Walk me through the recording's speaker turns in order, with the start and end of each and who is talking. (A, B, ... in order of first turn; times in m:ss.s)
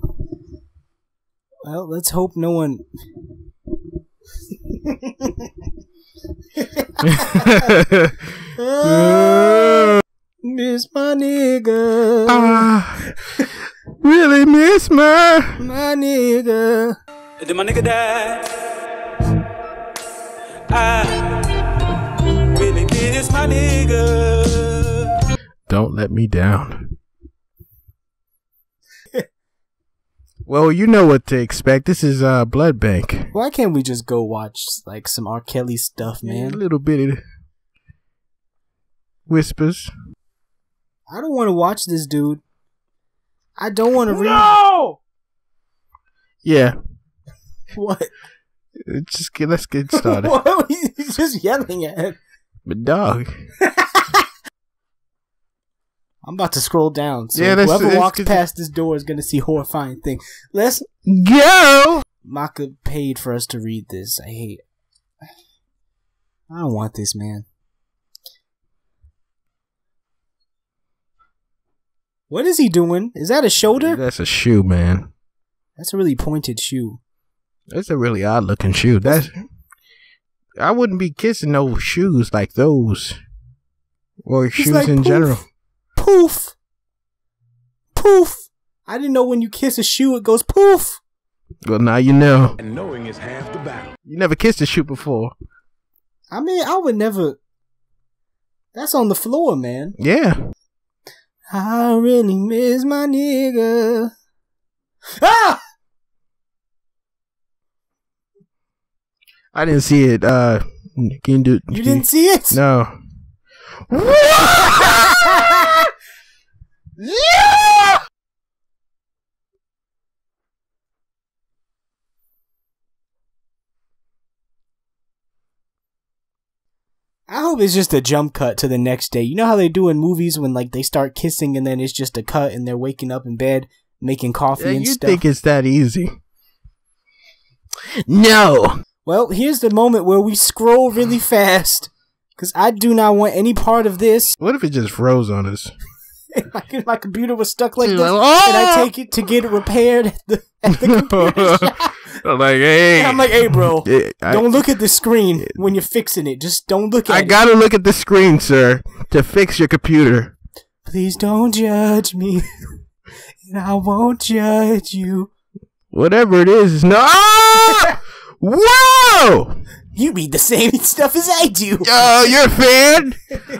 0:01.6-0:02.8 A
0:04.8-0:05.3 A
0:06.6-0:07.6 A
0:07.2-0:08.1 B
0:08.5-0:09.9 A
0:08.8-0:10.0 B
0:10.4-0:12.7 A
0:12.3-0:13.1 B
0:14.0-0:15.6 B
0:15.6-0:17.0 A
0:17.4-0:18.5 C
0:20.7-0:21.6 C
0:22.5-0:25.2 C
0:22.6-0:23.6 D
0:25.7-0:26.9 B
0:30.4-0:33.3 B
0:33.3-0:36.6 A
0:36.2-0:37.2 B
0:39.3-0:39.9 B
0:41.1-0:42.4 A
0:43.6-0:44.6 A
0:44.1-0:44.9 B
0:46.4-0:46.8 B
0:47.7-0:48.1 A
0:48.8-0:50.3 B
0:49.9-0:52.2 A
0:52.6-0:53.3 B
0:53.6-0:54.2 A
0:56.2-1:00.8 A
0:57.4-0:58.4 B
1:01.0-1:02.0 B
1:02.2-1:04.6 A
1:06.5-1:07.5 A
1:12.3-1:14.0 A
1:13.8-1:15.1 B
1:15.8-1:17.0 A
1:17.7-1:19.3 B
1:19.0-1:19.4 A
1:20.6-1:23.2 B
1:24.2-1:25.4 B
1:24.6-1:25.4 A
1:26.0-1:26.5 A
1:27.9-1:31.0 A
1:31.6-1:32.6 B
1:32.6-1:33.9 D
1:34.0-1:35.3 B
1:36.3-1:37.4 A
1:38.7-1:39.9 A
1:40.0-1:40.4 B
1:41.5-1:44.1 A
1:45.2-1:45.6 A
1:49.5-1:53.0 B
1:51.7-1:52.6 A
1:53.9-1:55.8 B
1:54.6-1:55.5 A
1:57.0-1:58.0 B
2:07.3-2:15.2 A
2:14.6-2:16.1 B
2:18.1-2:18.7 B
2:19.0-2:24.3 A
2:24.4-2:25.7 B
2:26.3-2:32.1 A
2:27.8-2:28.9 B
2:30.7-2:34.5 B
2:32.9-2:37.4 A
2:37.1-2:40.3 B
2:40.8-2:42.5 A
2:43.4-2:45.3 A
2:45.9-2:49.6 B
2:49.9-2:52.3 A
2:51.8-2:53.2 B